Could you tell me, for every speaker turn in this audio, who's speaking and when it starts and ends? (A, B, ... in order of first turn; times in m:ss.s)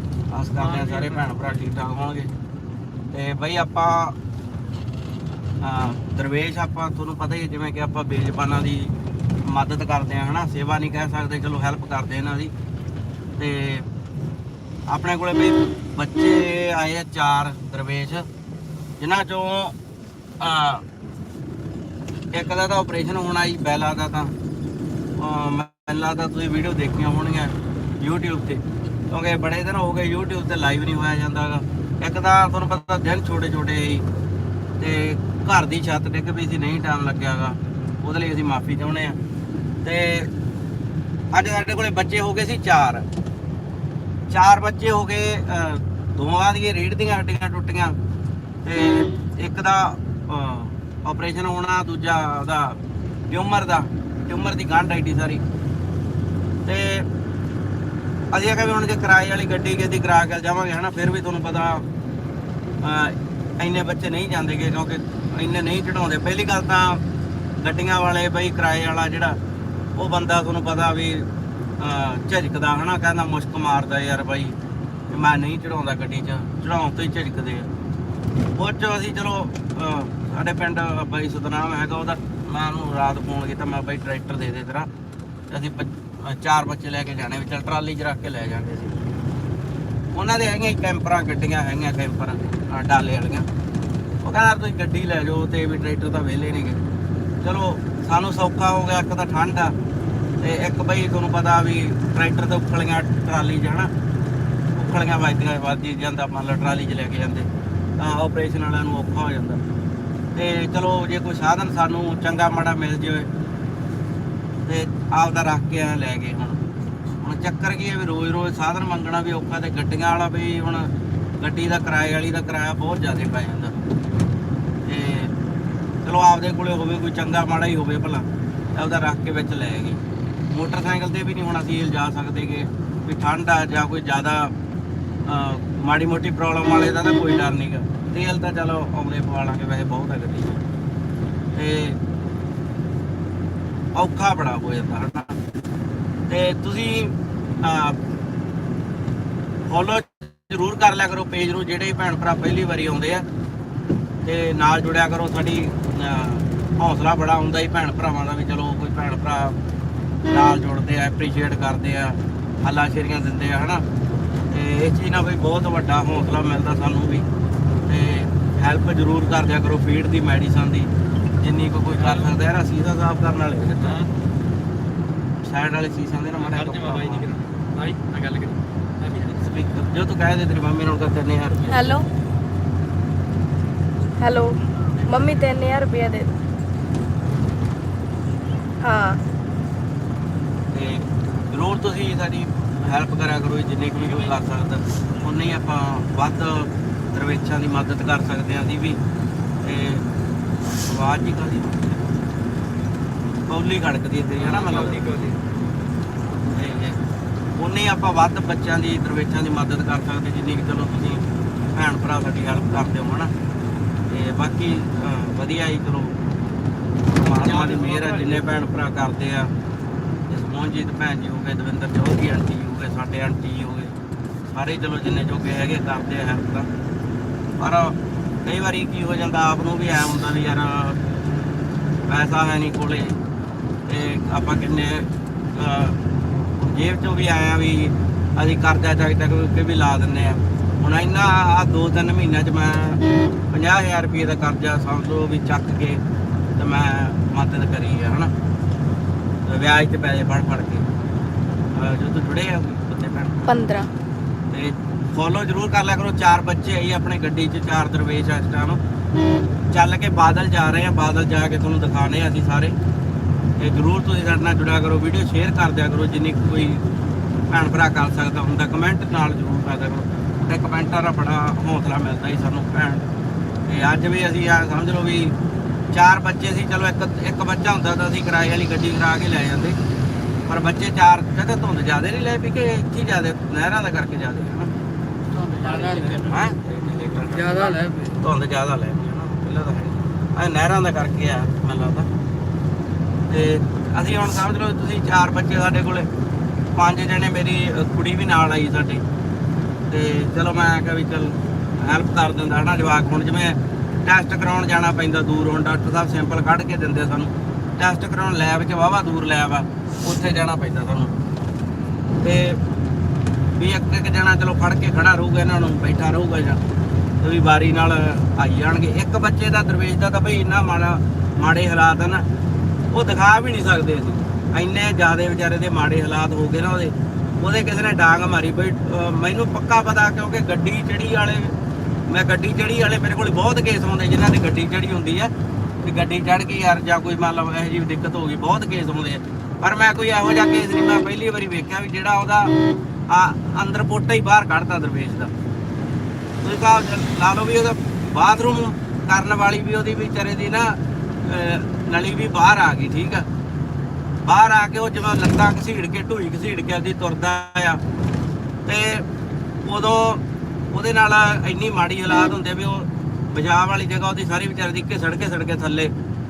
0:00.3-0:02.3 A
0:00.6-0:01.8 B
0:03.1-0:04.2 A
0:05.6-0:08.9 A
0:09.5-0:12.5 A
0:13.4-0:13.9 A
0:14.9-0:18.3 A
0:19.0-0:19.8 A
0:20.4-0:20.8 A
0:22.3-0:24.3 A
0:25.2-0:34.0 A
0:34.8-0:39.2 A
0:39.8-0:40.3 A
0:41.3-0:43.0 A
0:44.3-0:48.0 A
0:48.6-0:52.8 A
0:53.3-0:55.4 A
0:56.7-0:57.1 A
0:58.3-1:01.8 A
1:02.8-1:07.0 A
1:07.6-1:09.4 A
1:10.0-1:11.3 A
1:11.8-1:14.6 A
1:15.1-1:17.7 A
1:18.6-1:24.9 A
1:25.5-1:29.0 A
1:30.1-1:33.5 A
1:34.2-1:36.8 A
1:37.4-1:39.7 A
1:40.4-1:43.9 A
1:44.8-1:49.6 A
1:50.4-1:53.3 A
1:54.7-1:56.6 A
1:57.2-2:03.8 A
2:04.9-2:05.3 A
2:06.0-2:08.2 A
2:08.8-2:10.0 A
2:10.5-2:14.5 A
2:15.3-2:20.6 A
2:21.6-2:22.0 A
2:24.0-2:25.4 A
2:26.3-2:28.0 A
2:29.7-2:33.2 A
2:34.2-2:39.6 A
2:40.3-2:43.8 A
2:44.5-2:47.3 A
2:47.9-2:54.0 A
2:51.9-2:52.4 B
2:53.8-2:54.1 B
2:55.4-2:57.3 A
2:56.4-2:59.3 B
2:59.1-3:02.0 A
3:01.7-3:02.1 C
3:04.2-3:06.3 C
3:08.8-3:09.2 C
3:10.7-3:19.0 A
3:14.0-3:14.3 B
3:19.6-3:20.0 A
3:20.9-3:22.0 A
3:23.5-3:25.1 A
3:24.3-3:25.4 B
3:26.5-3:27.0 A
3:27.6-3:31.2 A
3:31.8-3:33.3 A
3:34.1-3:36.1 A
3:37.1-3:39.5 A
3:37.2-3:38.5 B
3:40.3-3:44.0 A
3:44.5-3:46.7 A
3:47.6-3:51.0 A
3:52.1-3:53.2 A
3:53.9-3:56.0 A
3:56.6-4:06.0 A
4:06.6-4:08.3 A
4:09.5-4:10.9 A
4:11.8-4:13.4 A
4:13.5-4:13.9 C
4:14.5-4:18.8 A
4:19.7-4:22.8 A
4:23.6-4:26.8 A
4:27.5-4:33.0 A
4:33.7-4:35.4 A
4:35.9-4:39.8 A
4:40.5-4:44.7 A
4:45.4-4:46.2 B
4:45.6-4:52.1 A
4:53.3-4:56.1 A
4:56.8-4:59.0 A
4:59.9-5:11.2 A
5:12.2-5:12.6 A
5:13.6-5:16.6 A
5:17.2-5:22.2 A
5:22.9-5:31.6 A
5:32.1-5:35.3 A
5:35.8-5:42.5 A
5:43.1-5:45.3 A
5:46.4-5:53.3 A
5:54.3-5:57.8 A
5:58.7-5:59.1 A
5:59.6-6:05.9 A